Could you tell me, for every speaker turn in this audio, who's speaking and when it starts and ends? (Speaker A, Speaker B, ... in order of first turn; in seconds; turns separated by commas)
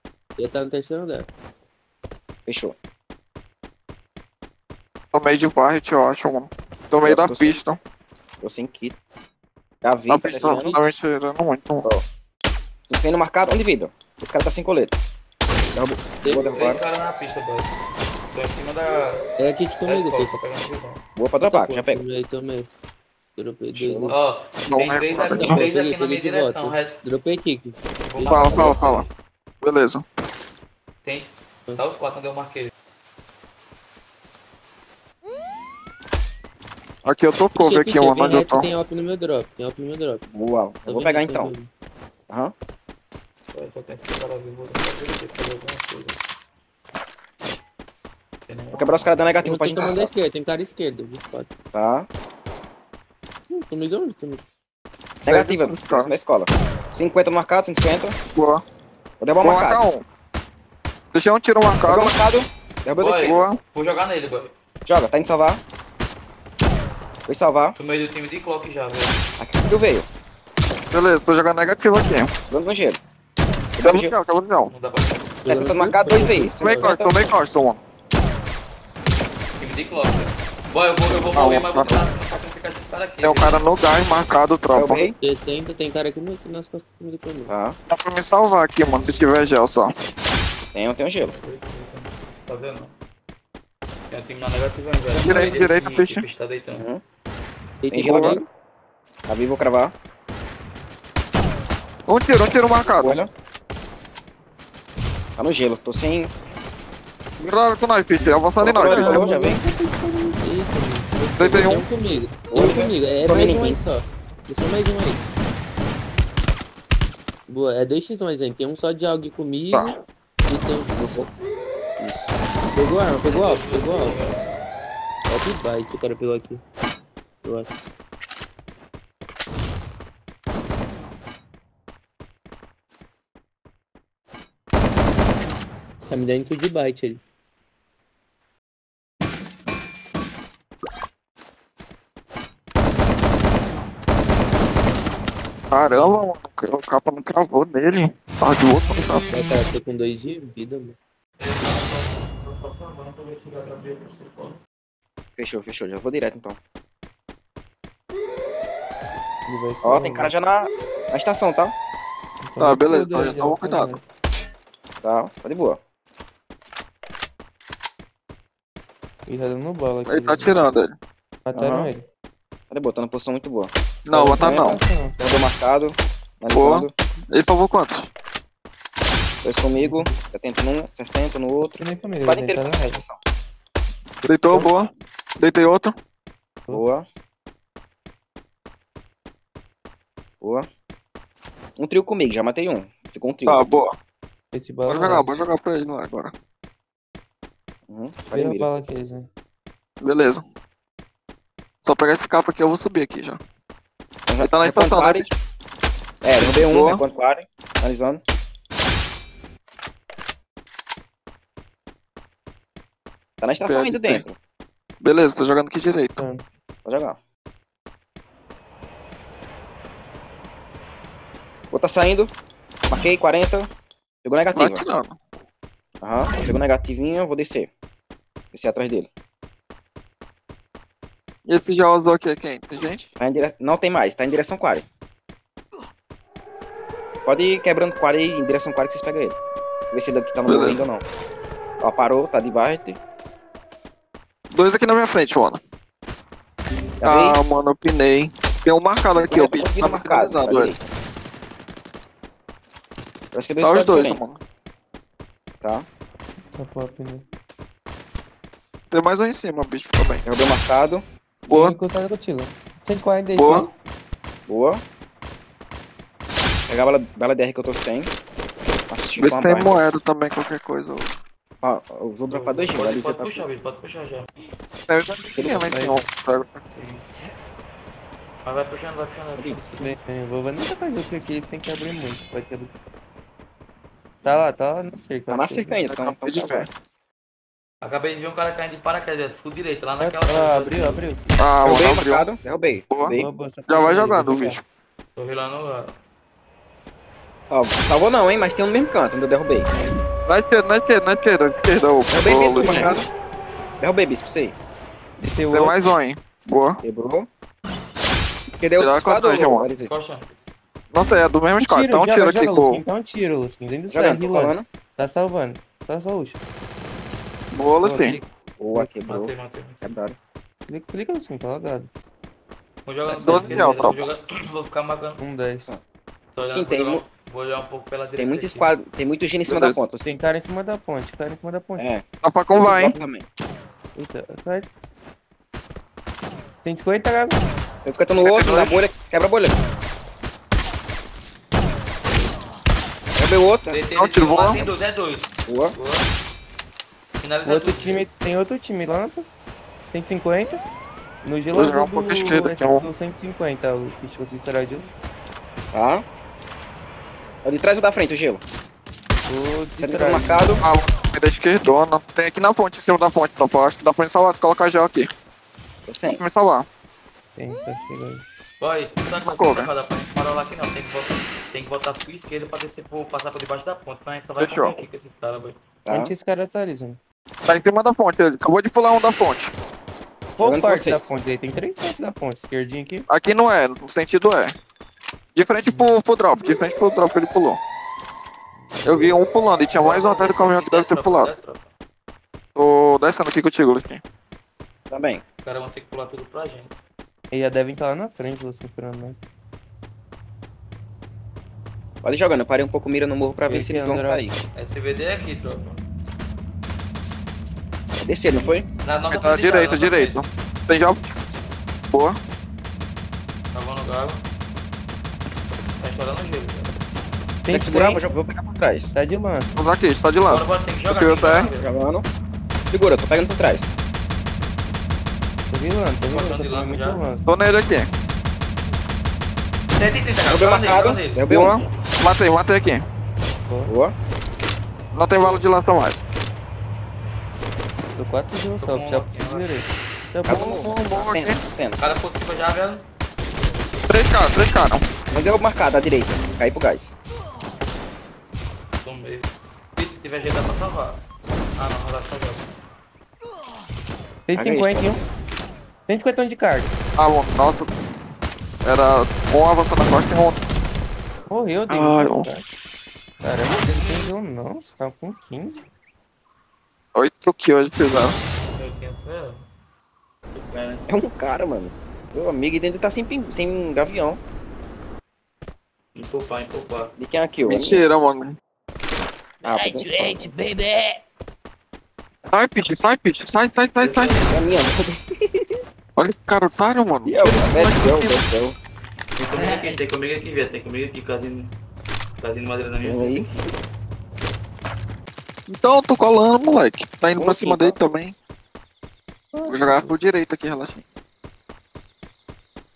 Speaker A: 0.4-1.3, Speaker B: 2.5-2.8, Speaker C: 5.1-7.8, Speaker B: 7.0-7.6, Speaker B: 8.4-9.0, Speaker B: 9.8-10.8, Speaker C: 10.1-11.9, Speaker B: 12.9-15.0, Speaker B: 15.8-16.8, Speaker D: 16.5-17.7, Speaker D: 18.3-19.2, Speaker A: 19.4-20.4, Speaker D: 19.9-21.0, Speaker B: 21.2-22.0, Speaker A: 21.5-22.7, Speaker A: 23.4-24.2, Speaker B: 23.7-24.1, Speaker D: 24.1-27.0, Speaker C: 24.7-25.6, Speaker A: 25.4-27.8, Speaker D: 28.1-29.1, Speaker C: 28.2-29.1, Speaker C: 29.6-30.1, Speaker D: 31.0-32.7, Speaker C: 37.0-38.7, Speaker A: 37.5-40.2, Speaker B: 40.3-41.5, Speaker A: 40.9-41.7, Speaker D: 43.5-46.2, Speaker D: 48.5-49.5, Speaker B: 48.7-50.1, Speaker A: 49.4-51.5, Speaker B: 51.7-52.1, Speaker A: 53.5-54.4, Speaker B: 55.2-58.2, Speaker C: 55.3-56.1, Speaker C: 58.4-58.6, Speaker B: 59.2-59.8, Speaker C: 59.4-60.0, Speaker C: 61.1-62.2, Speaker B: 61.8-63.5, Speaker D: 63.0-64.5, Speaker C: 63.3-63.6, Speaker B: 64.9-65.6, Speaker B: 67.3-67.8, Speaker D: 67.8-69.2, Speaker B: 69.4-70.1, Speaker C: 70.9-72.3, Speaker B: 72.5-73.0, Speaker B: 73.8-74.1, Speaker C: 73.8-74.7, Speaker D: 74.7-75.3, Speaker A: 75.5-76.9, Speaker B: 75.5-77.1, Speaker C: 76.6-77.8, Speaker D: 79.6-83.6, Speaker C: 81.3-82.0, Speaker C: 83.2-85.0, Speaker B: 84.7-85.2, Speaker A: 85.0-87.5, Speaker B: 87.5-87.8, Speaker C: 87.9-89.9, Speaker B: 90.7-91.3, Speaker D: 91.3-92.9, Speaker D: 94.1-96.9, Speaker C: 95.1-96.2, Speaker B: 96.7-97.0, Speaker A: 97.8-98.5, Speaker B: 97.9-98.4, Speaker C: 98.0-98.4, Speaker B: 99.3-99.9, Speaker C: 102.1-103.2, Speaker B: 103.0-103.3, Speaker B: 105.4-106.3, Speaker C: 107.4-109.3, Speaker B: 108.6-109.6, Speaker A: 108.8-115.2, Speaker C: 111.4-111.9, Speaker B: 112.5-113.8, Speaker A: 117.5-120.0, Speaker C: 119.7-120.0, Speaker A: 120.5-121.3, Speaker B: 120.9-121.3, Speaker B: 122.0-122.3, Speaker A: 122.8-124.2, Speaker D: 123.2-124.5, Speaker A: 125.3-126.6, Speaker A: 127.4-127.7, Speaker A: 136.1-137.2, Speaker C: 145.7-149.3, Speaker D: 145.9-146.3, Speaker A: 149.3-151.0, Speaker D: 151.4-154.6, Speaker B: 155.4-156.6, Speaker A: 159.5-160.3, Speaker B: 159.8-161.8, Speaker A: 162.4-164.0, Speaker C: 162.6-164.0, Speaker B: 165.0-165.8, Speaker A: 169.3-170.6, Speaker C: 170.1-171.0, Speaker A: 171.4-172.0, Speaker B: 171.5-171.9, Speaker B: 172.7-173.7, Speaker C: 174.1-174.8, Speaker A: 174.1-175.2, Speaker B: 174.3-176.9, Speaker C: 176.5-178.1, Speaker B: 179.4-183.2, Speaker A: 179.8-180.2, Speaker A: 181.8-183.0, Speaker C: 184.2-185.9, Speaker B: 186.7-187.1, Speaker B: 190.4-190.7, Speaker B: 191.8-193.7, Speaker C: 193.5-193.9, Speaker A: 194.5-195.3, Speaker C: 194.9-196.3, Speaker B: 197.9-198.7, Speaker A: 198.3-199.3, Speaker C: 200.0-200.4, Speaker C: 201.8-203.4, Speaker B: 204.3-205.3, Speaker C: 204.4-205.3, Speaker B: 206.2-208.2, Speaker C: 206.4-207.0, Speaker B: 213.4-214.4, Speaker C: 213.6-214.2, Speaker C: 215.0-216.2, Speaker B: 216.8-217.2, Speaker B: 221.7-222.3, Speaker B: 222.9-223.7, Speaker B: 224.2-224.9, Speaker C: 224.5-225.2, Speaker B: 226.0-227.7, Speaker B: 228.5-229.1, Speaker C: 231.5-233.1, Speaker B: 233.2-234.9, Speaker B: 237.2-239.4, Speaker B: 239.9-241.1, Speaker C: 240.5-240.9, Speaker B: 241.8-243.0, Speaker C: 244.5-245.6, Speaker B: 247.0-247.4, Speaker C: 247.0-250.7, Speaker B: 249.2-250.8, Speaker B: 253.3-254.2, Speaker C: 253.6-254.4, Speaker A: 256.5-257.2, Speaker C: 258.9-260.2, Speaker B: 260.3-261.0, Speaker C: 261.5-261.8, Speaker A: 261.5-263.7, Speaker C: 263.4-263.7, Speaker B: 264.5-264.8, Speaker B: 266.7-268.1, Speaker B: 268.9-269.8, Speaker C: 269.2-271.1, Speaker B: 271.6-273.4, Speaker D: 272.3-274.3, Speaker C: 274.9-276.6, Speaker B: 275.4-275.7, Speaker A: 275.6-276.1, Speaker D: 276.7-277.0, Speaker D: 278.4-279.9, Speaker A: 279.8-282.7, Speaker A: 284.2-285.8, Speaker B: 285.3-286.7, Speaker C: 285.9-286.7, Speaker D: 287.8-291.0, Speaker A: 290.0-291.3, Speaker C: 291.4-292.3, Speaker B: 291.6-293.3, Speaker C: 292.9-293.2, Speaker A: 293.1-294.6, Speaker C: 293.7-294.6, Speaker D: 295.2-296.0, Speaker B: 297.5-299.7, Speaker C: 300.3-303.0, Speaker B: 302.1-303.1, Speaker A: 302.6-303.0, Speaker B: 303.8-304.6, Speaker A: 305.2-305.8, Speaker C: 305.5-306.8, Speaker B: 306.8-307.3, Speaker B: 308.6-309.9, Speaker C: 308.8-309.7, Speaker D: 309.7-310.4, Speaker C: 310.9-312.8, Speaker A: 311.6-316.4, Speaker B: 313.9-314.7, Speaker C: 317.5-318.2, Speaker A: 317.8-318.9, Speaker B: 318.6-320.2, Speaker D: 319.1-319.8, Speaker A: 320.7-321.9, Speaker D: 322.9-325.2, Speaker C: 323.1-324.1, Speaker A: 323.3-323.7, Speaker A: 325.2-325.7, Speaker D: 326.3-328.8, Speaker B: 326.4-327.0, Speaker B: 328.2-330.1, Speaker C: 329.5-329.8, Speaker A: 330.0-331.9, Speaker B: 331.8-333.3, Speaker C: 332.2-332.9, Speaker A: 333.9-334.7, Speaker A: 336.6-337.4, Speaker B: 337.9-339.6, Speaker C: 338.2-338.8, Speaker B: 343.2-343.8, Speaker D: 343.7-346.1, Speaker C: 344.0-344.6, Speaker B: 345.5-345.8, Speaker D: 347.2-348.1, Speaker A: 347.4-349.3, Speaker A: 349.9-350.6, Speaker A: 351.2-354.9, Speaker C: 351.5-352.9, Speaker D: 354.6-354.9, Speaker B: 355.7-356.1, Speaker B: 357.4-358.4, Speaker A: 359.3-360.5, Speaker B: 359.8-360.6, Speaker C: 360.6-365.1, Speaker B: 365.9-366.2, Speaker C: 366.2-366.7, Speaker A: 367.4-368.2, Speaker D: 368.6-375.6, Speaker C: 369.1-369.7, Speaker C: 374.4-374.8, Speaker B: 375.9-376.1, Speaker A: 375.9-377.0, Speaker C: 377.5-379.5, Speaker B: 380.4-381.1, Speaker A: 380.4-383.1, Speaker C: 383.1-384.6, Speaker C: 385.4-387.6, Speaker A: 388.7-389.1, Speaker C: 388.9-391.3, Speaker D: 389.8-391.7, Speaker C: 392.6-394.0, Speaker B: 394.9-395.2, Speaker D: 395.4-396.7, Speaker A: 397.3-399.2, Speaker B: 402.0-404.4, Speaker A: 403.4-404.3, Speaker D: 404.6-405.8, Speaker B: 408.0-408.7, Speaker D: 408.8-410.2, Speaker C: 409.1-411.2, Speaker C: 411.9-412.2, Speaker D: 413.5-414.3, Speaker D: 415.8-416.7, Speaker A: 417.4-418.0, Speaker B: 417.5-418.9, Speaker A: 418.9-419.5, Speaker C: 419.6-421.5, Speaker D: 420.3-421.7, Speaker B: 421.6-422.1, Speaker B: 422.7-423.7, Speaker A: 425.5-427.3, Speaker D: 426.1-427.0, Speaker C: 427.2-427.9, Speaker D: 429.8-431.2, Speaker B: 430.3-431.6, Speaker C: 431.3-432.9, Speaker B: 433.7-433.9, Speaker C: 434.9-436.0, Speaker A: 437.9-440.5, Speaker D: 438.6-439.7, Speaker B: 440.3-441.8, Speaker C: 440.3-441.4, Speaker D: 441.8-442.9, Speaker C: 443.9-444.9, Speaker B: 445.1-447.0, Speaker D: 448.8-451.0, Speaker D: 451.6-452.5, Speaker A: 454.3-455.0, Speaker B: 454.4-455.0, Speaker A: 455.9-456.7, Speaker C: 457.0-457.7, Speaker C: 458.6-460.4, Speaker A: 461.3-462.4, Speaker C: 461.7-462.3, Speaker A: 463.2-465.6, Speaker C: 466.9-468.2, Speaker D: 468.5-469.5, Speaker D: 470.3-470.9, Speaker B: 470.9-474.2, Speaker D: 475.9-476.9, Speaker B: 477.0-477.9, Speaker C: 477.4-478.4, Speaker A: 479.4-481.0, Speaker B: 479.4-480.4, Speaker C: 482.3-484.3, Speaker D: 483.8-484.6, Speaker B: 484.3-485.6, Speaker C: 486.0-488.2, Speaker B: 487.1-488.6, Speaker A: 489.2-489.8, Speaker D: 489.2-491.5, Speaker D: 492.2-493.3, Speaker B: 492.8-493.4, Speaker C: 495.5-498.1, Speaker B: 497.2-497.8, Speaker A: 499.3-500.0, Speaker C: 499.5-500.8